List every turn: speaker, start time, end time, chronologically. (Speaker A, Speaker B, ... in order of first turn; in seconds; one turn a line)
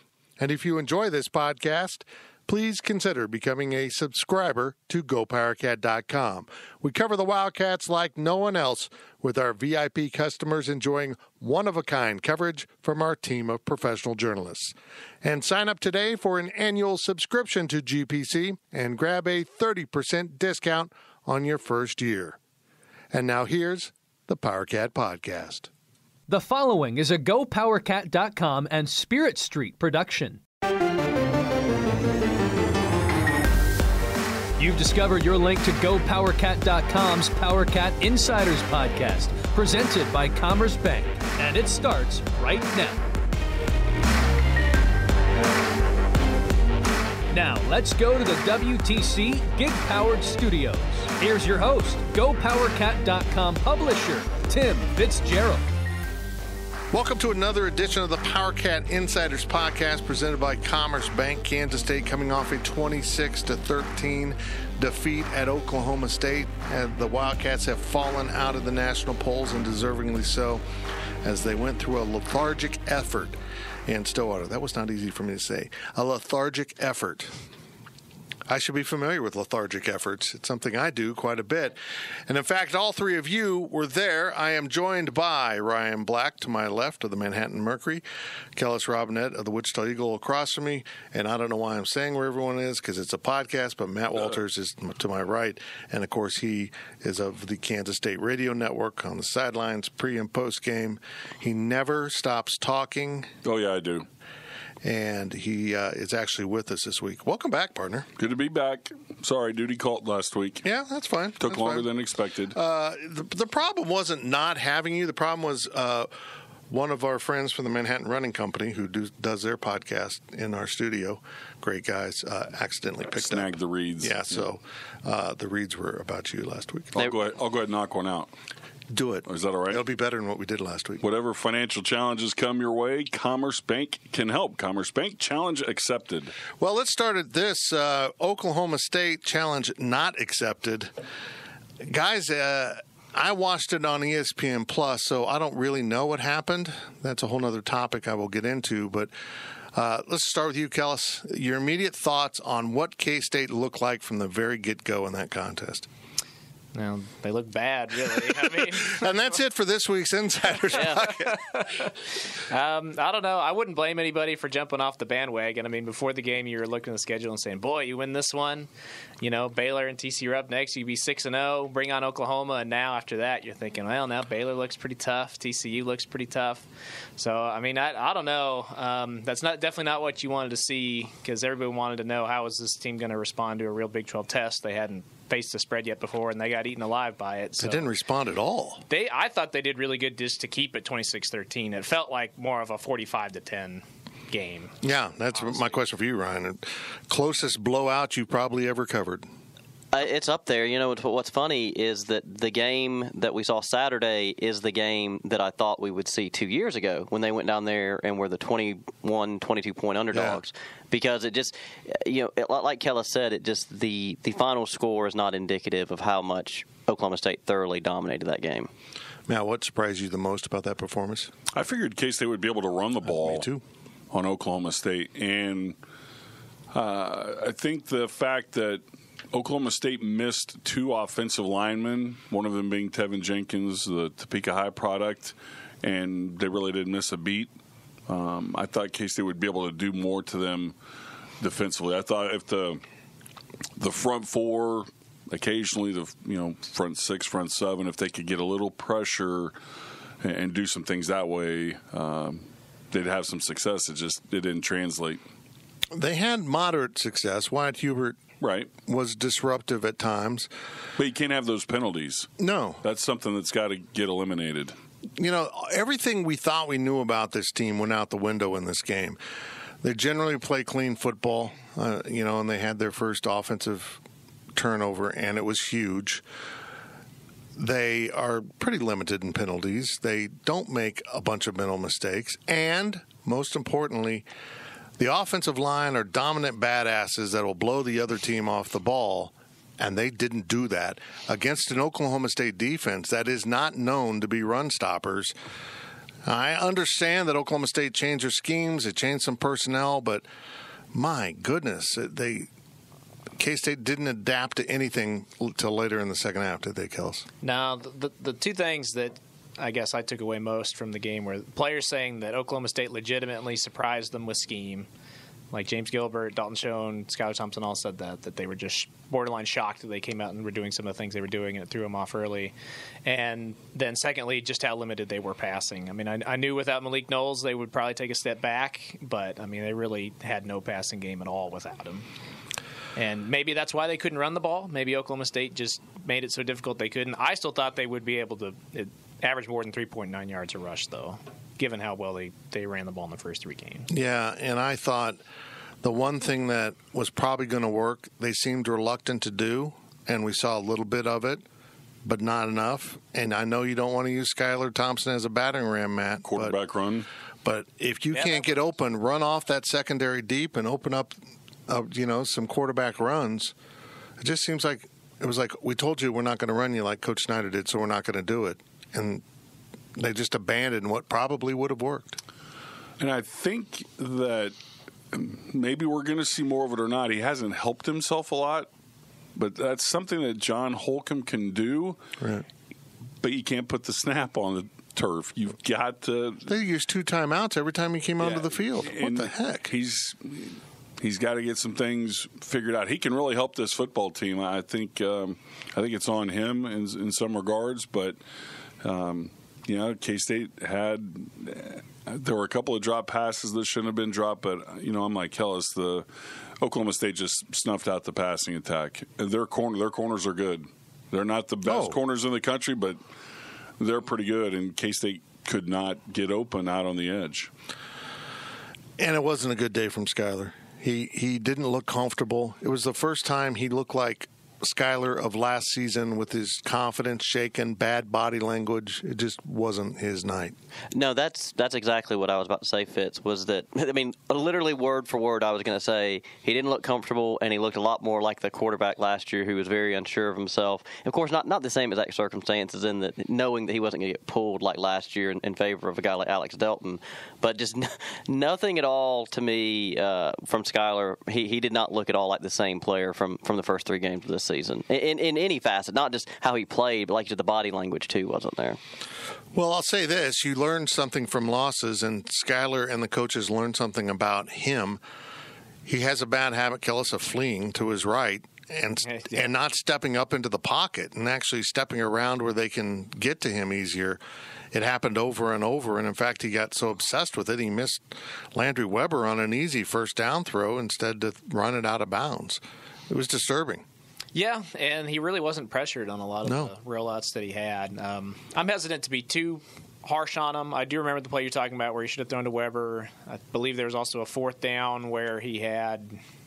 Speaker A: 0.4-22.4
Speaker A: 23.1-25.7
Speaker B: 26.3-30.4
Speaker B: 34.6-43.0
Speaker B: 47.3-55.7
Speaker A: 56.9-70.6
Speaker A: 71.2-77.4
Speaker A: 78.5-88.0
Speaker A: 88.5-103.3
Speaker C: 103.4-104.1
Speaker A: 104.8-108.1
Speaker C: 108.2-110.6
Speaker A: 110.6-111.9
Speaker C: 111.4-112.5
Speaker A: 112.5-116.1
Speaker A: 116.7-127.1
Speaker C: 123.1-124.4
Speaker C: 127.0-128.3
Speaker A: 128.9-131.0
Speaker C: 129.2-129.8
Speaker C: 131.0-136.4
Speaker A: 136.6-140.9
Speaker A: 141.8-149.1
Speaker A: 149.7-155.9
Speaker D: 156.7-159.1
Speaker A: 158.3-161.4
Speaker E: 160.7-161.1
Speaker D: 160.9-168.7
Speaker D: 169.2-176.6
Speaker D: 177.2-187.9
Speaker A: 187.6-188.8
Speaker D: 188.9-194.8
Speaker A: 194.8-199.3
Speaker D: 195.4-195.7
Speaker E: 199.9-218.7
Speaker A: 210.1-210.4
Speaker A: 219.3-221.3
Speaker C: 221.5-223.5
Speaker A: 223.0-223.6
Speaker C: 224.1-225.8
Speaker C: 226.7-237.5
Speaker C: 238.1-240.8
Speaker C: 241.4-242.8
Speaker C: 243.8-249.5
Speaker C: 250.2-255.2
Speaker A: 255.9-258.2
Speaker C: 258.4-258.7
Speaker A: 258.8-260.5
Speaker C: 261.0-262.3
Speaker A: 262.4-262.8
Speaker C: 262.8-264.8
Speaker A: 265.2-269.2
Speaker A: 269.8-274.0
Speaker A: 274.6-276.2
Speaker A: 277.6-284.2
Speaker A: 285.0-295.3
Speaker A: 296.2-300.2
Speaker A: 300.9-302.5
Speaker A: 303.4-307.2
Speaker D: 307.4-314.9
Speaker D: 315.5-322.5
Speaker D: 323.1-332.1
Speaker D: 332.9-343.9
Speaker A: 343.9-345.2
Speaker A: 345.8-351.4
Speaker A: 352.0-356.6
Speaker C: 356.2-357.1
Speaker A: 357.4-363.5
Speaker D: 358.1-358.7
Speaker A: 364.2-369.2
Speaker A: 369.9-372.2
Speaker C: 373.0-374.6
Speaker C: 375.1-378.7
Speaker C: 379.4-382.0
Speaker A: 382.2-382.4
Speaker C: 383.2-386.5
Speaker A: 386.5-389.7
Speaker C: 388.2-398.2
Speaker C: 398.8-406.1
Speaker C: 406.6-413.0
Speaker A: 411.6-412.0
Speaker C: 413.8-417.5
Speaker A: 419.0-430.6
Speaker E: 430.9-458.8
Speaker A: 459.5-465.0
Speaker A: 465.9-474.2
Speaker D: 469.1-469.5
Speaker A: 474.7-483.8
Speaker D: 484.3-496.2
Speaker A: 486.4-486.7